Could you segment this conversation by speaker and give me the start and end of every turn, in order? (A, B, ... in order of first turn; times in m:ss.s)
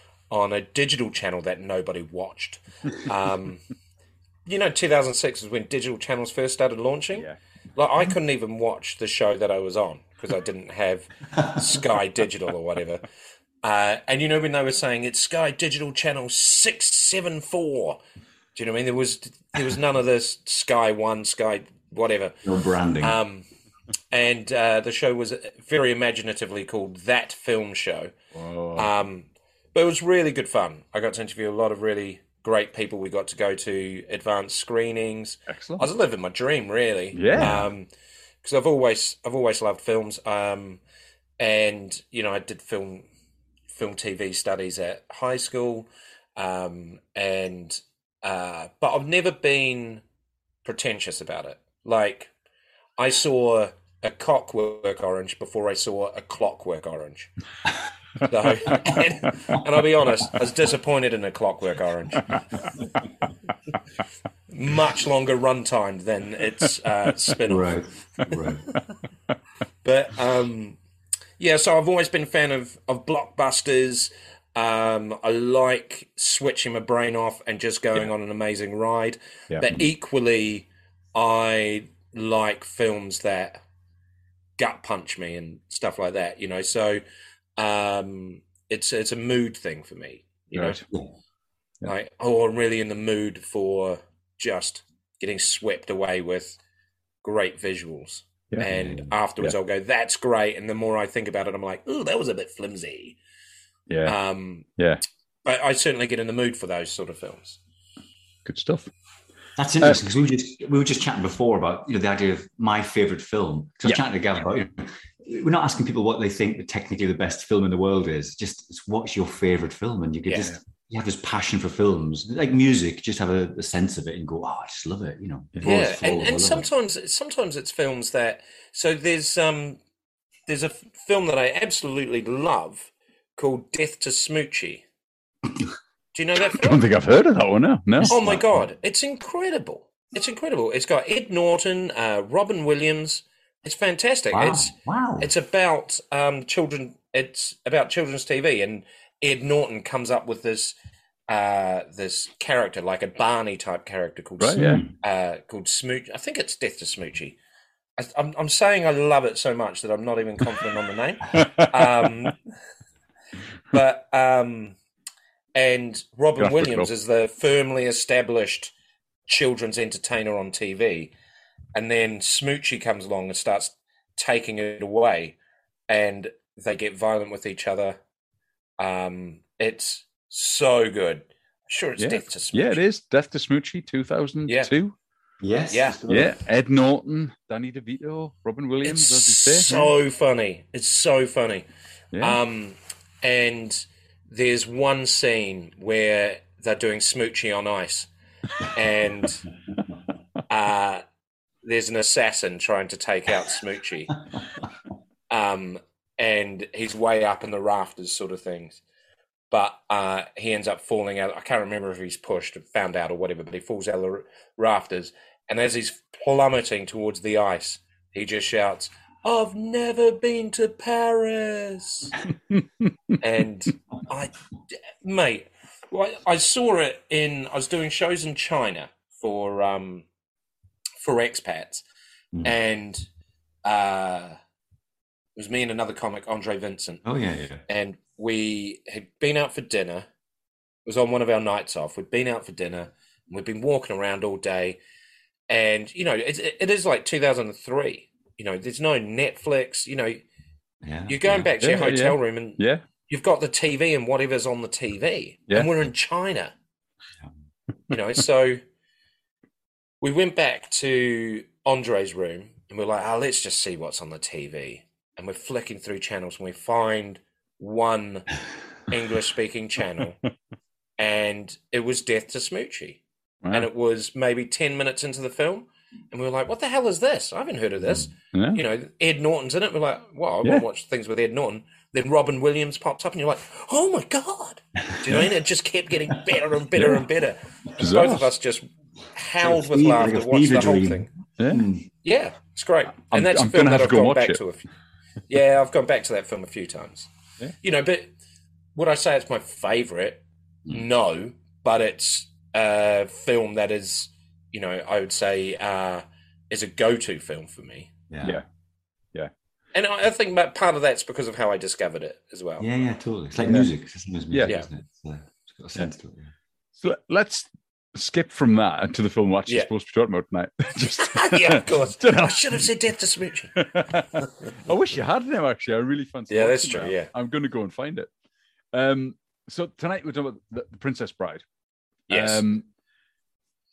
0:00.3-0:03.6 A
0:04.5-0:13.0 A
0:13.6-0:18.0 A
0:18.6-0:22.4 A
0:22.4-0:23.2 B
0:23.0-0:23.4 A
0:24.1-0:28.1 A
0:28.3-0:28.9 C
0:28.8-0:37.9 A
0:35.5-0:35.9 C
0:37.2-0:37.6 C
0:37.4-0:37.7 B
0:38.4-0:40.8 A
0:41.4-0:43.1 A
0:43.7-0:50.0 A
0:50.6-0:52.3 A
0:53.0-0:57.3 A
0:58.2-1:02.4 A
1:04.5-1:07.8 A
1:07.5-1:08.6 B
1:09.8-1:10.8 A
1:11.4-1:23.6 A
1:24.6-1:27.0 A
1:27.6-1:30.8 A
1:30.6-1:30.8 C
1:31.8-1:36.6 A
1:37.2-1:43.2 A
1:38.6-1:39.0 B
1:43.9-1:44.2 C
1:44.1-1:44.7 A
1:44.8-1:45.0 C
1:45.4-1:47.6 A
1:48.5-1:48.9 C
1:49.6-2:06.7 B
2:00.3-2:00.5 A
2:05.6-2:05.9 C
2:05.6-2:09.8 A
2:10.5-2:14.8 A
2:16.1-2:16.8 A
2:16.5-2:18.2 C
2:18.0-2:18.7 B
2:18.1-2:30.8 A
2:24.3-2:25.3 B
2:31.3-2:37.4 A
2:34.4-2:34.8 C
2:34.6-2:34.9 B
2:38.0-2:42.4 A
2:41.4-2:41.7 C
2:43.7-2:44.8 A
2:45.6-2:48.7 A
2:46.4-2:46.9 C
2:49.3-2:51.1 A
2:51.7-2:55.4 A
2:55.9-2:58.0 A
2:58.8-3:02.8 A
3:02.0-3:05.0 C
3:04.5-3:04.7 A
3:05.4-3:06.4 B
3:05.7-3:06.0 A
3:06.1-3:09.9 C
3:08.8-3:11.7 A
3:12.1-3:12.4 C
3:12.2-3:18.1 A
3:18.7-3:19.4 A
3:20.5-3:21.0 A
3:21.6-3:24.2 A
3:25.3-3:28.8 A
3:29.5-3:42.1 A
3:43.2-3:44.3 A
3:45.0-3:50.1 A
3:51.0-3:51.8 A
3:52.4-3:53.1 A
3:53.6-3:54.4 A
3:55.4-3:57.0 A
3:57.0-3:57.6 B
3:57.7-4:00.1 A
4:00.9-4:04.8 A
4:05.5-4:10.2 A
4:10.8-4:11.5 B
4:11.1-4:16.5 A
4:11.6-4:12.8 C
4:17.9-4:18.6 A
4:20.0-4:28.3 A
4:28.9-4:30.2 A
4:31.0-4:33.0 A
4:33.4-4:33.7 C
4:33.5-4:51.1 A
4:38.3-4:38.6 C
4:47.8-4:48.3 C
4:49.4-4:51.9 B
4:52.0-4:54.6 A
4:53.1-4:54.4 C
4:55.3-4:57.1 A
4:57.6-4:58.1 A
4:58.8-5:07.9 A
5:08.1-5:08.4 B
5:09.7-5:12.7 A
5:12.6-5:16.3 B
5:13.4-5:13.7 C
5:16.8-5:22.7 C
5:20.8-5:24.3 A
5:23.6-5:28.1 C
5:26.3-5:27.1 A
5:28.7-5:31.4 C
5:32.1-5:32.4 A
5:32.1-5:32.6 C